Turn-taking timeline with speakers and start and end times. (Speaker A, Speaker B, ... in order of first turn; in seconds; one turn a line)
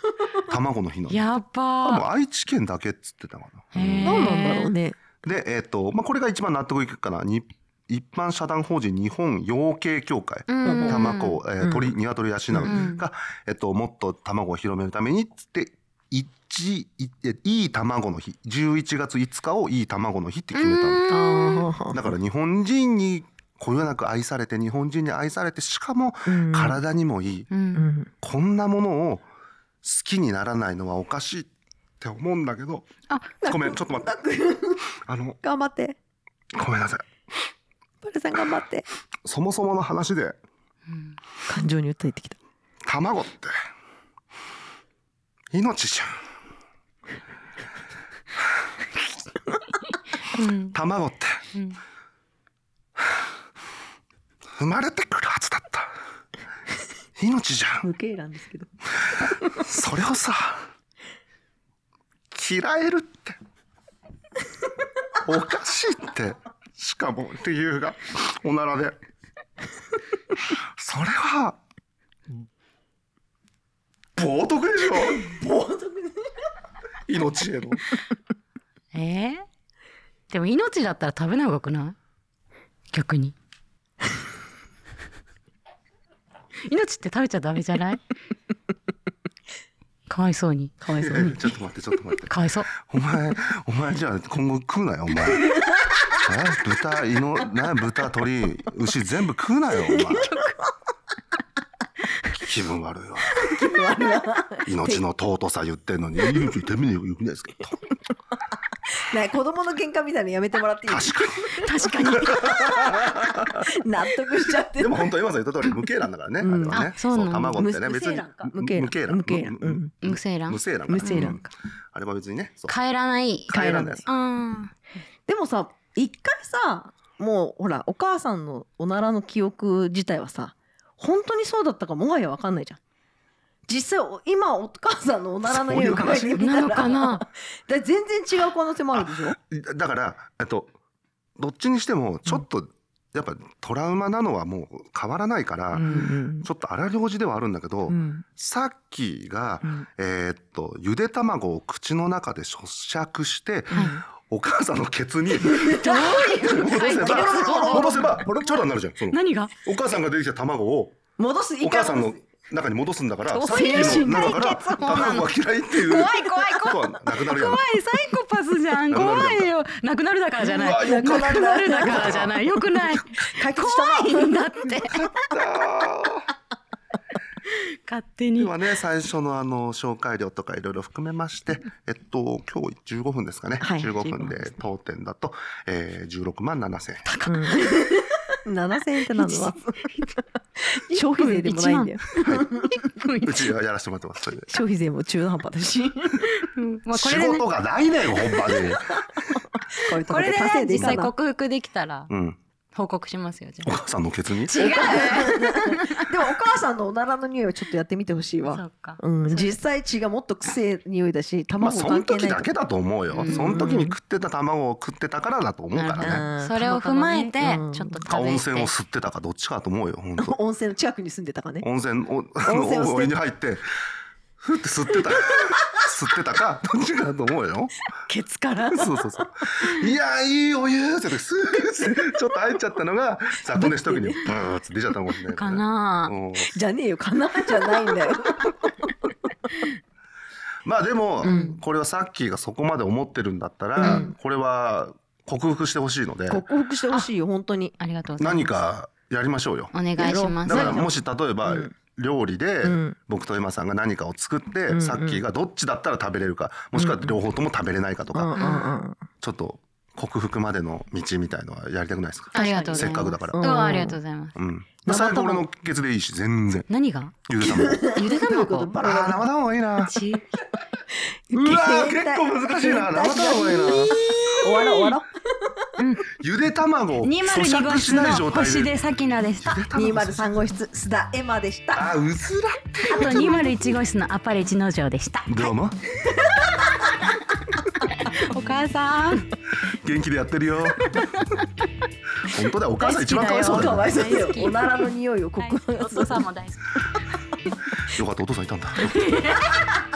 Speaker A: 0.5-1.3
Speaker B: 1.1-2.0
Speaker A: 1.8-4.3
Speaker B: 3.7-4.7
Speaker C: 4.0-5.0
Speaker A: 5.2-21.1
Speaker B: 10.5-11.4
Speaker C: 10.6-12.0
Speaker C: 12.5-12.9
Speaker B: 12.7-13.0
Speaker B: 20.5-21.7
Speaker C: 21.1-22.0
Speaker A: 21.9-27.5
Speaker C: 26.3-26.8
Speaker B: 27.5-27.8
Speaker C: 27.7-28.1
Speaker A: 28.2-29.2
Speaker A: 29.8-31.5
Speaker A: 32.0-32.9
Speaker A: 33.4-34.1
Speaker C: 33.4-34.9
Speaker A: 35.0-35.4
Speaker C: 35.4-36.0
Speaker A: 36.5-37.0
Speaker C: 38.0-38.8
Speaker A: 39.2-40.4
Speaker B: 40.9-41.1
Speaker C: 41.5-42.4
Speaker A: 42.8-43.5
Speaker A: 45.5-46.1
Speaker B: 50.3-50.8
Speaker A: 50.7-51.5
Speaker B: 51.5-51.8
Speaker A: 54.6-55.9
Speaker A: 57.2-57.9
Speaker C: 57.8-58.7
Speaker A: 59.5-60.7
Speaker A: 62.3-63.4
Speaker A: 65.2-69.0
Speaker A: 70.8-71.6
Speaker A: 74.2-75.2
Speaker C: 75.1-76.3
Speaker A: 77.1-77.8
Speaker B: 78.9-79.4
Speaker B: 80.3-81.9
Speaker B: 82.9-83.3
Speaker B: 86.6-88.0
Speaker B: 90.1-91.2
Speaker C: 90.8-91.5
Speaker A: 91.0-95.5
Speaker B: 92.2-92.7
Speaker C: 95.5-95.9
Speaker A: 96.2-100.3
Speaker C: 99.9-100.5
Speaker A: 102.3-103.5
Speaker C: 103.4-105.0
Speaker A: 104.7-107.8
Speaker C: 109.0-115.1
Speaker A: 110.9-113.6
Speaker B: 111.6-112.7
Speaker A: 114.7-122.8
Speaker C: 116.4-116.9
Speaker B: 116.7-117.6
Speaker C: 117.5-119.9
Speaker B: 120.0-121.3
Speaker C: 120.9-121.5
Speaker B: 122.7-124.7
Speaker A: 123.5-124.1
Speaker C: 123.5-124.0
Speaker C: 125.3-132.8
Speaker C: 133.7-139.4
Speaker A: 135.4-137.0
Speaker B: 136.4-137.2
Speaker A: 138.9-140.7
Speaker A: 141.4-161.0
Speaker C: 145.8-146.5
Speaker C: 147.9-148.2
Speaker B: 153.7-154.0
Speaker C: 153.7-154.0
Speaker C: 155.4-158.3
Speaker B: 155.6-158.4
Speaker B: 159.1-159.5
Speaker C: 161.2-162.2
Speaker A: 161.6-167.7
Speaker B: 163.3-175.0
Speaker C: 163.3-165.3
Speaker A: 168.9-169.5
Speaker A: 170.4-172.3
Speaker C: 170.6-174.6
Speaker A: 174.8-176.3
Speaker B: 177.5-178.6
Speaker A: 178.4-187.1
Speaker C: 183.6-184.5
Speaker B: 187.1-187.5
Speaker C: 187.2-189.8
Speaker B: 189.2-189.4
Speaker C: 190.7-192.8
Speaker B: 190.9-192.0
Speaker A: 192.2-192.6
Speaker B: 192.8-193.5
Speaker A: 193.2-194.5
Speaker C: 194.5-196.2
Speaker B: 196.3-197.5
Speaker A: 196.9-199.2
Speaker C: 199.7-201.1
Speaker B: 199.9-202.1
Speaker A: 202.1-202.4
Speaker B: 202.7-203.7
Speaker A: 203.6-204.6
Speaker B: 204.4-206.1
Speaker C: 204.5-212.5
Speaker B: 208.5-209.6
Speaker A: 211.6-216.2
Speaker B: 213.1-213.8
Speaker C: 213.2-214.0
Speaker B: 215.7-218.7
Speaker C: 216.0-218.0
Speaker A: 218.1-220.4
Speaker C: 220.2-221.7
Speaker A: 221.6-223.6
Speaker C: 222.4-223.1
Speaker A: 224.4-227.7
Speaker C: 228.1-229.0
Speaker A: 228.7-236.5
Speaker C: 233.6-234.2
Speaker B: 235.3-236.1
Speaker C: 236.5-238.9
Speaker A: 240.6-246.4
Speaker B: 241.2-241.5
Speaker C: 241.2-241.6
Speaker C: 243.8-244.1
Speaker B: 243.8-244.1
Speaker C: 246.3-247.8
Speaker B: 247.8-248.6
Speaker A: 248.2-258.4
Speaker B: 249.7-250.8
Speaker C: 250.0-250.9
Speaker C: 251.4-251.7
Speaker C: 252.6-253.0
Speaker C: 254.7-255.2
Speaker C: 256.7-257.2
Speaker C: 258.1-259.0
Speaker B: 258.4-258.7
Speaker A: 259.2-263.5
Speaker B: 262.3-264.4
Speaker C: 262.4-264.0
Speaker A: 264.4-266.7
Speaker C: 264.8-265.5
Speaker B: 266.7-267.2
Speaker A: 267.2-270.0
Speaker C: 267.4-269.2
Speaker B: 267.9-268.7
Speaker B: 269.8-270.2
Speaker C: 271.3-275.6
Speaker A: 271.3-274.0
Speaker B: 273.3-275.0
Speaker B: 275.8-276.1
Speaker A: 276.1-278.8
Speaker B: 277.0-279.6
Speaker A: 279.4-280.5
Speaker C: 279.7-281.9
Speaker A: 281.7-283.5
Speaker B: 282.9-285.5
Speaker C: 283.0-283.4
Speaker A: 285.2-285.8
Speaker C: 286.3-286.7
Speaker B: 288.0-289.3
Speaker A: 289.7-291.0
Speaker A: 292.3-293.9
Speaker B: 292.7-296.8
Speaker C: 293.4-296.2
Speaker A: 297.9-299.0
Speaker B: 298.8-299.7